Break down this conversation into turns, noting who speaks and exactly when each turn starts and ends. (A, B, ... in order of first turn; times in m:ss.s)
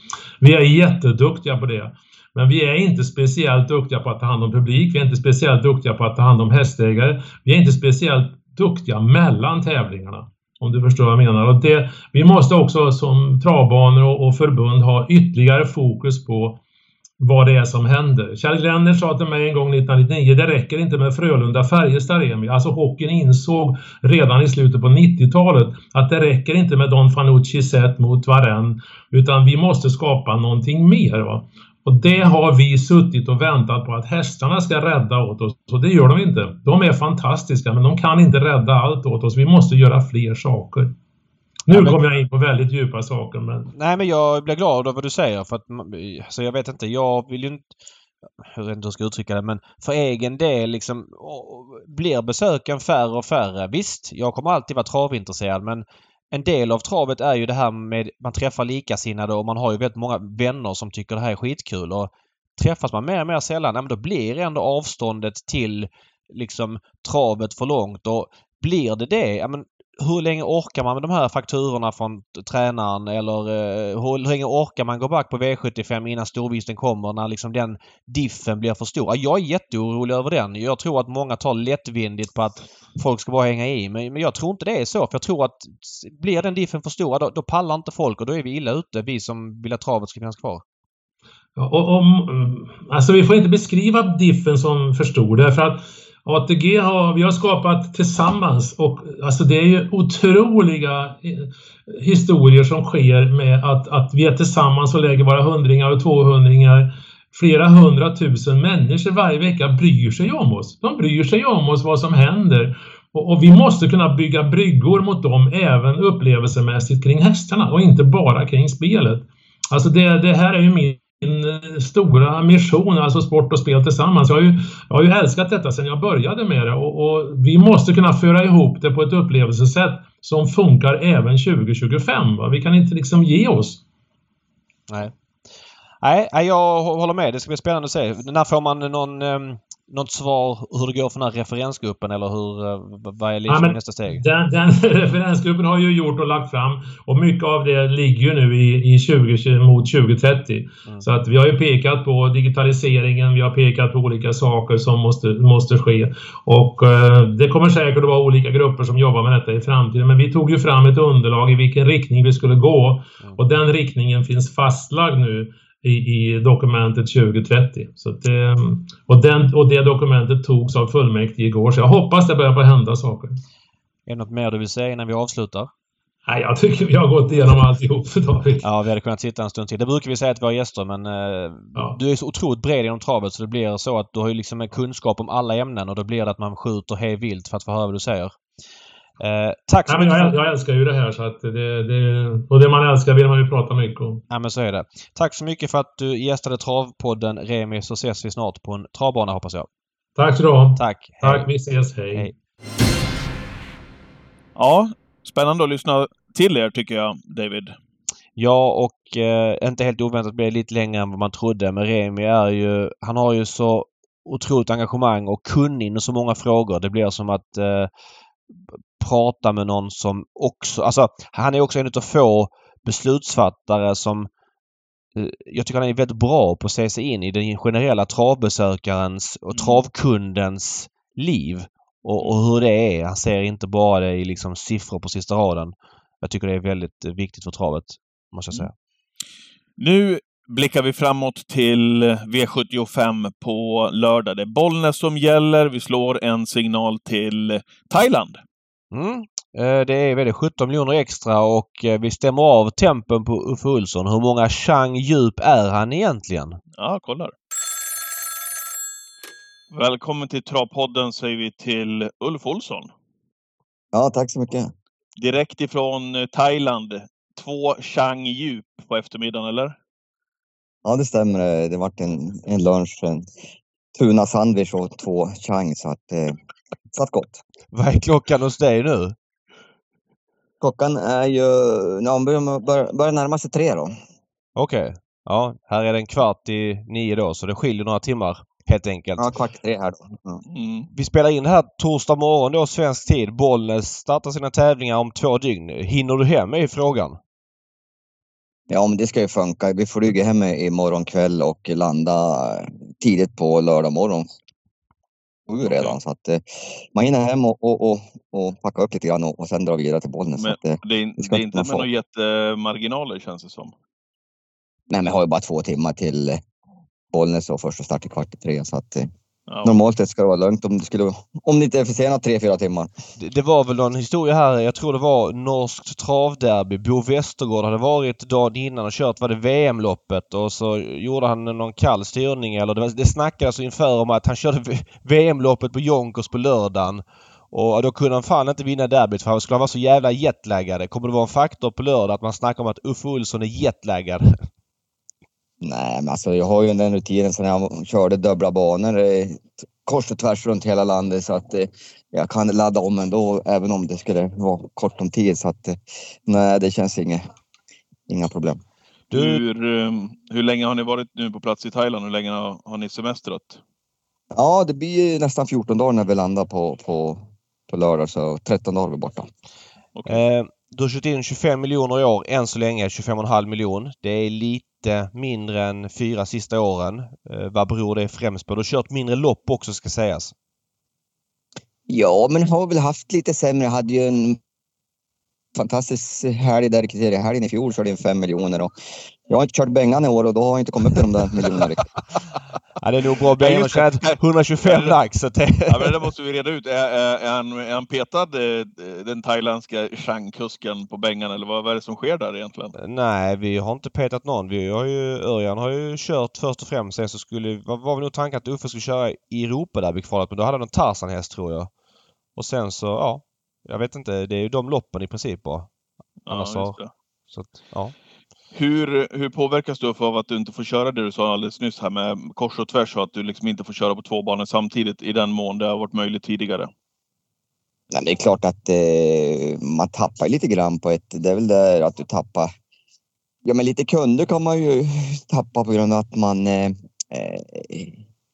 0:00.4-0:16.6 A
0:17.2-0:40.9 A
0:41.7-0:43.7 A
0:41.7-0:42.0 B
0:43.7-0:47.7 B
0:48.4-1:30.6 B
1:31.6-2:13.8 A
2:14.9-2:15.1 B
2:16.0-2:24.2 B
2:23.5-2:53.4 A
2:54.1-2:55.7 B
2:56.2-2:58.6 A
2:58.6-3:08.4 B
3:09.2-3:10.3 B
3:09.9-3:14.2 A
3:14.3-3:19.7 B
3:20.2-3:22.3 A
3:20.8-3:21.5 B
3:24.5-3:27.7 C
3:28.4-3:37.9 B
3:39.0-3:44.3 B
3:45.1-3:58.7 B
3:49.5-3:49.8 C
3:59.8-4:08.4 C
4:08.9-4:16.6 B
4:16.7-4:17.3 C
4:19.7-4:22.9 C
4:23.9-4:24.7 D
4:25.2-4:29.8 C
4:30.8-4:33.3 D
4:34.0-4:36.4 D
4:36.9-4:37.4 D
4:37.7-4:39.2 B
4:40.6-4:43.9 D
4:44.6-4:49.3 B
4:49.2-4:50.4 D
4:50.5-4:50.9 C
4:50.9-4:57.2 B
4:58.7-5:04.2 D
5:05.5-5:06.4 D
5:05.6-5:06.0 C
5:06.9-5:11.9 D
5:10.4-5:13.7 C
5:14.9-5:16.4 D
5:17.1-5:19.1 D
5:19.5-5:19.8 C
5:19.6-5:22.9 D
5:23.2-5:44.4 B
5:45.6-5:57.2 D
5:58.1-5:58.6 D
5:59.1-6:03.6 C
5:59.1-5:59.4 B
6:04.3-6:09.3 D
6:10.0-6:20.3 B
6:21.9-6:24.4 D
6:25.6-6:28.7 D
6:29.3-6:31.9 D
6:32.8-6:35.9 B
6:33.4-6:35.0 C
6:35.6-6:42.7 C
6:42.8-6:51.7 B
6:52.4-6:55.7 B
6:56.2-6:56.9 C
6:56.3-6:56.8 B
6:57.3-6:57.9 B
6:58.5-7:06.7 C
7:07.9-7:12.5 D
7:13.4-7:18.0 D